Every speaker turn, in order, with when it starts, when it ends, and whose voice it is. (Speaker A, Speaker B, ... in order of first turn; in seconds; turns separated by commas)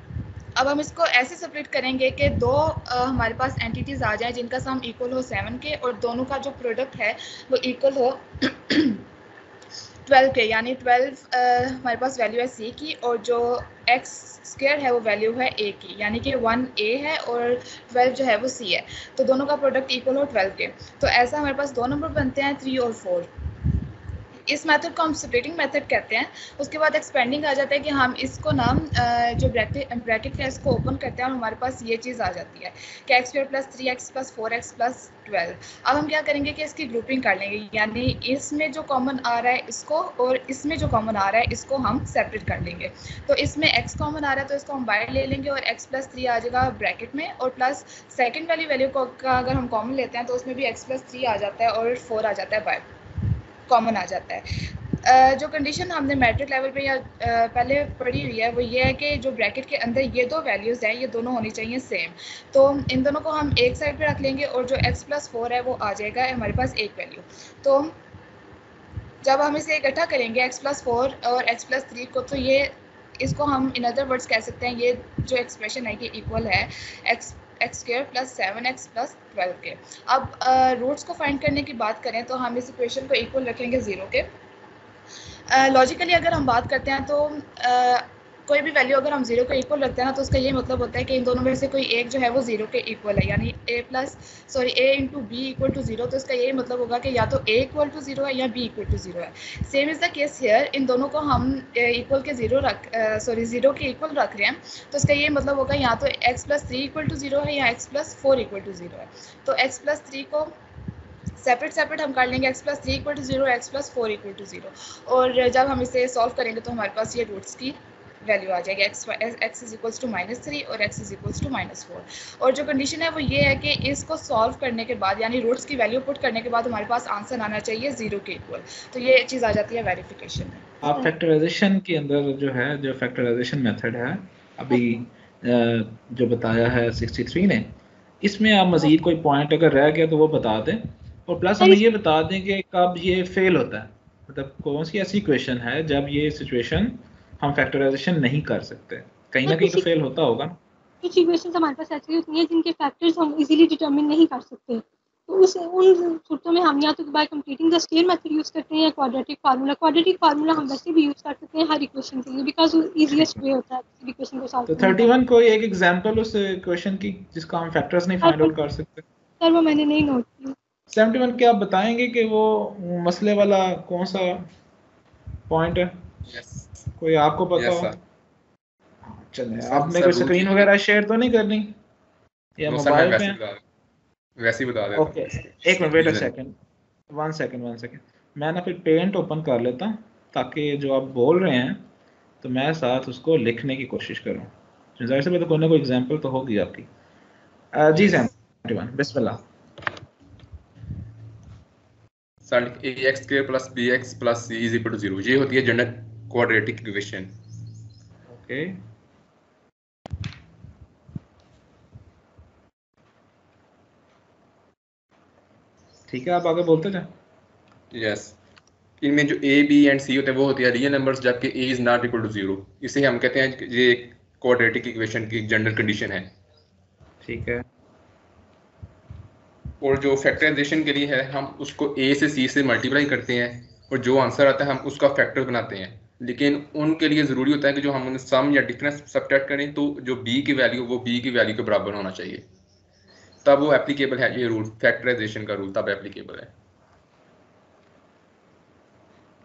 Speaker A: 0.6-9.0, Speaker A: 10.1-23.3, Speaker A: 24.5-52.8, Speaker A: 53.7-54.5, Speaker A: 55.0-67.9, Speaker A: 69.2-84.3, Speaker A: 85.5-110.5, Speaker A: 111.4-130.7, Speaker B: 130.8-150.6, Speaker C: 141.6-141.8, Speaker C: 149.4-149.8, Speaker C: 151.0-165.1, Speaker B: 163.1-163.4, Speaker B: 164.7-169.0, Speaker C: 168.2-168.5, Speaker C: 169.4-170.5, Speaker B: 170.9-174.5, Speaker B: 175.5-175.9, Speaker D: 176.3-176.8, Speaker B: 177.0-177.9, Speaker D: 177.6-178.0, Speaker B: 179.1-181.8, Speaker D: 179.6-180.7, Speaker B: 182.6-183.4, Speaker D: 182.6-183.6, Speaker D: 184.4-186.3, Speaker B: 185.0-186.5, Speaker B: 187.1-191.8, Speaker B: 192.4-196.9, Speaker B: 197.7-199.4, Speaker D: 202.4-207.3, Speaker B: 208.3-208.8, Speaker B: 216.1-217.1, Speaker D: 217.9-218.3, Speaker D: 219.0-226.3, Speaker B: 227.2-227.7, Speaker D: 229.8-242.4, Speaker D: 243.4-246.5